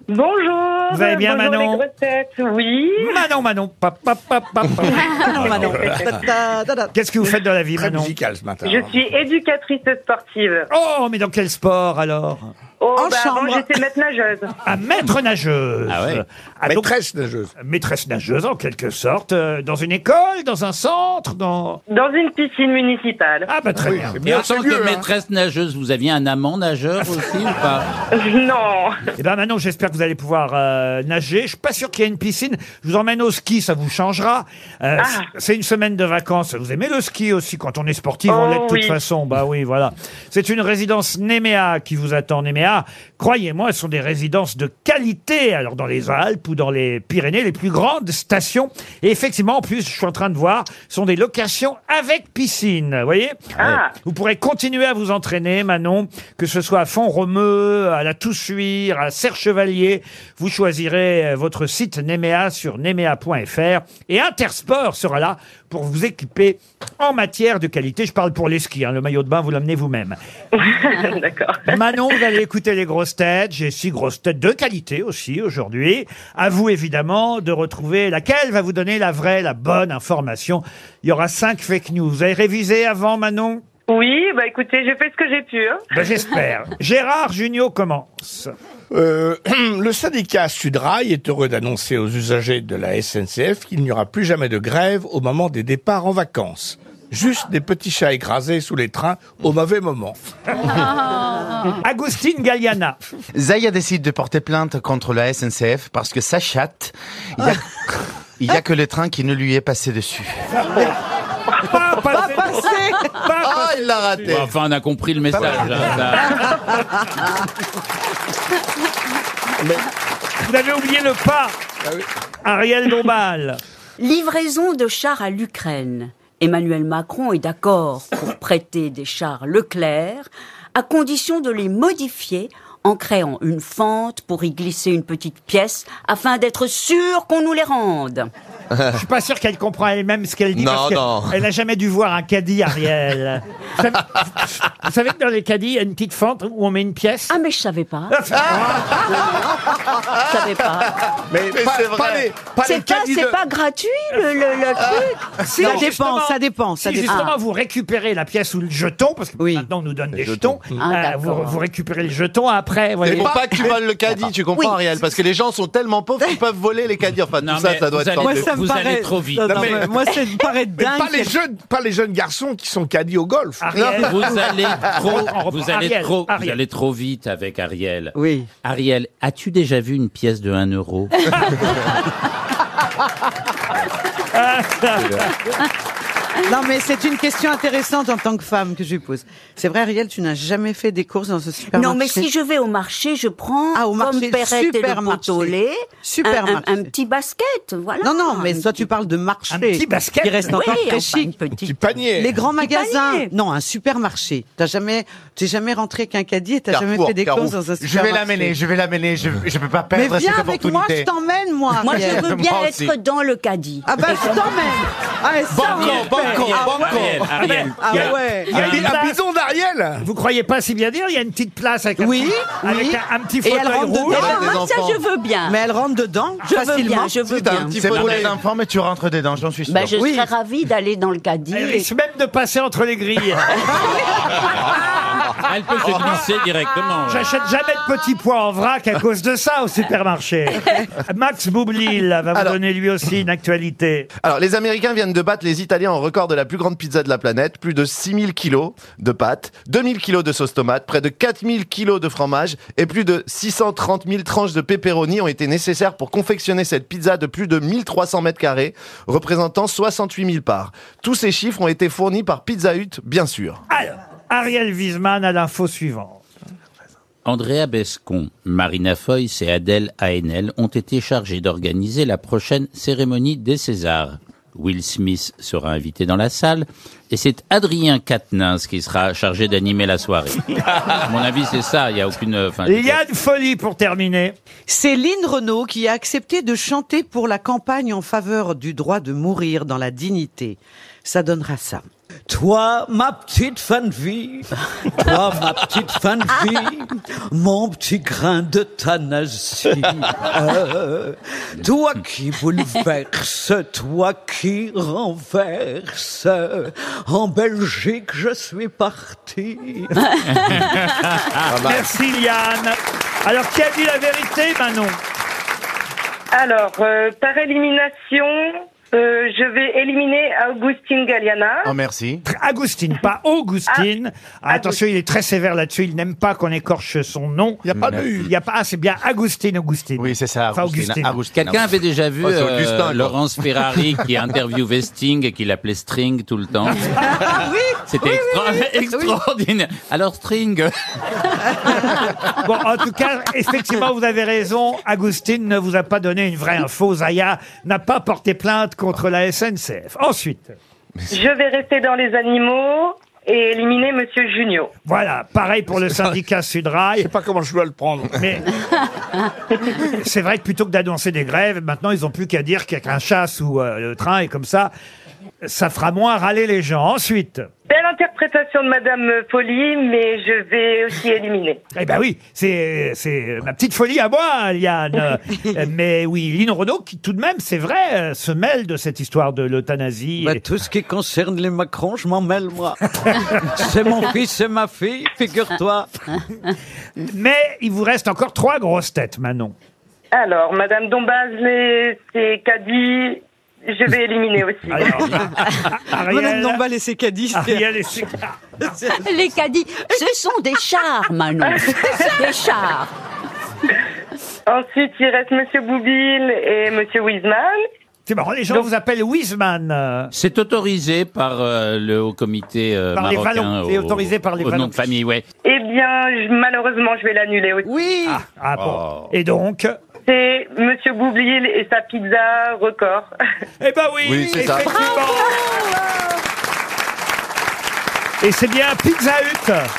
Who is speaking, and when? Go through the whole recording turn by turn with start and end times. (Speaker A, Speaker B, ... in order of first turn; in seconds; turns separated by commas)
Speaker A: 0.1-3.2, Speaker B: 0.9-1.8, Speaker B: 3.0-5.1, Speaker A: 4.8-6.1, Speaker C: 4.9-6.9, Speaker D: 5.4-6.0, Speaker B: 6.9-8.1, Speaker D: 7.8-9.0, Speaker A: 8.6-10.7, Speaker B: 10.7-12.5, Speaker A: 12.8-14.5, Speaker C: 13.0-13.7, Speaker B: 14.6-16.9, Speaker E: 15.9-16.2, Speaker D: 16.6-17.5, Speaker B: 17.6-21.8, Speaker A: 21.9-23.5, Speaker B: 23.5-24.2, Speaker D: 23.8-25.1, Speaker E: 24.2-27.9, Speaker A: 28.1-29.0, Speaker B: 29.2-70.2, Speaker A: 35.0-35.2, Speaker A: 38.3-39.0, Speaker A: 53.6-53.9, Speaker A: 70.5-71.8, Speaker B: 71.7-83.6, Speaker A: 83.9-85.8, Speaker B: 85.9-88.5, Speaker D: 88.9-100.2, Speaker B: 101.8-103.0, Speaker F: 103.3-107.7, Speaker F: 108.4-110.4, Speaker B: 111.6-114.3, Speaker C: 112.1-113.1, Speaker G: 113.4-114.5, Speaker F: 113.8-114.2, Speaker E: 114.2-116.6, Speaker B: 120.4-121.5, Speaker B: 122.4-123.6, Speaker H: 124.0-138.3, Speaker B: 138.9-147.4, Speaker G: 140.6-141.3, Speaker H: 147.3-148.2, Speaker B: 148.1-149.2, Speaker H: 149.0-149.5, Speaker H: 150.1-151.0, Speaker D: 151.3-153.4, Speaker G: 151.5-152.3, Speaker H: 152.5-155.3, Speaker B: 155.4-163.4, Speaker C: 155.6-157.3, Speaker H: 157.0-157.4, Speaker C: 159.4-159.7, Speaker H: 160.8-161.6, Speaker G: 163.0-168.5, Speaker H: 163.4-163.7, Speaker H: 164.5-164.8, Speaker E: 167.4-169.8, Speaker C: 168.2-171.4, Speaker D: 169.3-170.1, Speaker D: 170.7-173.7, Speaker B: 173.6-176.6, Speaker G: 173.8-174.1, Speaker E: 173.9-181.7, Speaker C: 178.2-178.5, Speaker B: 184.3-185.3, Speaker C: 186.4-192.3, Speaker H: 191.7-198.9, Speaker C: 193.7-196.9, Speaker C: 198.0-201.4, Speaker B: 199.5-200.6, Speaker H: 200.4-202.0, Speaker D: 201.6-202.4, Speaker C: 202.1-208.6, Speaker H: 202.6-203.3, Speaker F: 206.7-211.1, Speaker C: 209.9-212.3, Speaker H: 211.8-214.2, Speaker F: 211.8-212.9, Speaker C: 213.8-218.6, Speaker F: 215.5-217.3, Speaker E: 215.6-218.7, Speaker D: 215.8-220.1, Speaker B: 217.3-219.2, Speaker B: 220.0-224.4, Speaker C: 222.0-224.7, Speaker H: 224.1-225.6, Speaker G: 224.4-225.0, Speaker C: 225.4-227.3, Speaker H: 226.4-228.1, Speaker G: 227.4-228.3, Speaker F: 227.6-230.0, Speaker E: 227.8-228.4, Speaker H: 229.7-231.9, Speaker C: 230.0-230.3, Speaker B: 231.5-233.6, Speaker E: 235.3-237.3, Speaker B: 237.1-244.1, Speaker G: 244.2-263.6, Speaker B: 263.7-266.2, Speaker E: 267.2-283.0, Speaker B: 282.6-284.4, Speaker C: 284.7-291.8, Speaker I: 292.3-310.0, Speaker E: 310.3-311.4, Speaker B: 311.5-315.0, Speaker G: 311.5-311.8, Speaker A: 316.3-321.7, Speaker F: 321.6-322.2, Speaker B: 322.3-331.2, Speaker A: 324.5-324.8, Speaker D: 327.7-328.3, Speaker F: 330.0-333.2, Speaker E: 331.3-342.1, Speaker C: 337.0-339.1, Speaker B: 342.4-350.6, Speaker A: 351.1-354.7, Speaker B: 354.9-357.1, Speaker D: 357.0-358.2, Speaker B: 358.1-358.5, Speaker B: 359.8-364.7, Speaker B: 365.4-367.5, Speaker A: 367.7-371.6, Speaker B: 371.8-380.4, Speaker C: 380.2-382.8, Speaker I: 380.5-382.8, Speaker I: 383.4-385.9, Speaker C: 383.8-384.2, Speaker C: 385.0-385.6, Speaker B: 387.0-389.5, Speaker A: 390.1-395.2, Speaker B: 394.7-396.6, Speaker C: 396.1-397.6, Speaker B: 397.3-398.3, Speaker C: 398.6-399.0, Speaker H: 399.0-402.9, Speaker C: 399.8-400.2, Speaker A: 401.5-402.1, Speaker A: 404.5-407.6, Speaker B: 408.1-410.1, Speaker E: 410.1-415.2, Speaker B: 412.9-414.9, Speaker A: 415.4-417.7, Speaker C: 417.7-418.2, Speaker B: 418.1-419.7, Speaker F: 418.6-419.0, Speaker A: 420.1-423.1, Speaker B: 423.6-425.4, Speaker G: 424.0-424.7, Speaker H: 424.7-426.0, Speaker A: 424.8-425.3, Speaker B: 428.2-429.7